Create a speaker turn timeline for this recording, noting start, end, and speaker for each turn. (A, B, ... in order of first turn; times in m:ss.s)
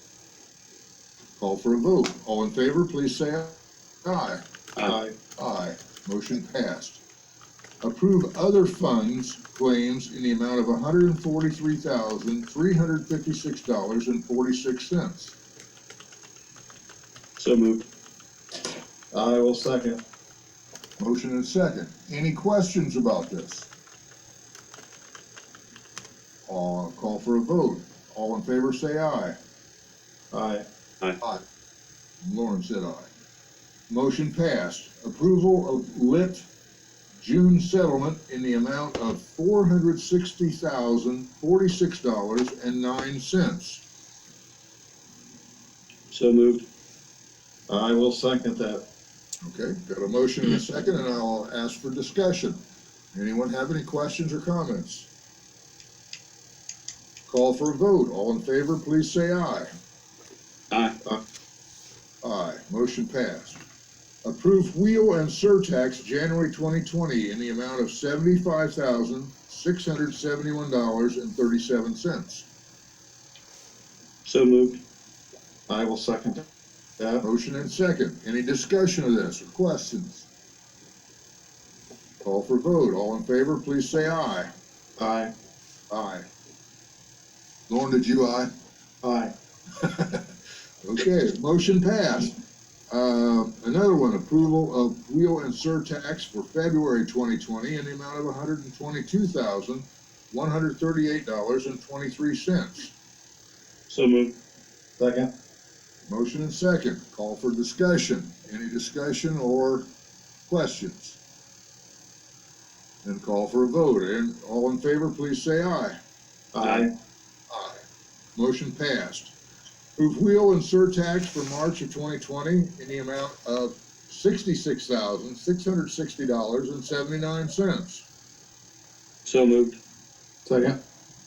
0:01.4-0:04.4 A
0:04.8-0:05.1 B
0:05.4-0:07.0 A
0:07.8-0:15.4 A
0:17.4-0:17.8 C
0:19.1-0:20.0 B
0:21.0-0:23.7 A
0:26.5-0:29.4 A
0:30.3-0:30.7 B
0:32.2-0:33.1 A
0:33.9-0:36.4 A
0:37.2-0:43.8 A
0:46.1-0:46.6 C
0:47.7-0:48.9 B
0:49.4-0:52.6 A
0:53.1-0:55.1 A
0:57.3-0:59.7 A
1:00.7-1:01.0 C
1:02.2-1:03.6 A
1:04.2-1:12.4 A
1:14.2-1:14.8 C
1:15.7-1:16.4 B
1:17.0-1:17.2 B
1:17.2-1:20.3 A
1:22.2-1:24.5 A
1:25.0-1:25.3 B
1:25.9-1:26.3 A
1:27.7-1:28.5 A
1:29.0-1:29.3 B
1:29.8-1:30.2 A
1:30.8-1:32.4 A
1:32.9-1:42.9 A
1:43.9-1:44.4 C
1:45.0-1:45.3 B
1:46.1-1:49.9 A
1:50.5-1:51.2 A
1:53.0-1:56.0 A
1:56.5-1:56.9 B
1:56.6-1:56.9 C
1:57.5-1:57.8 A
1:58.4-1:59.3 A
2:00.0-2:08.0 A
2:09.2-2:09.8 C
2:10.4-2:10.8 B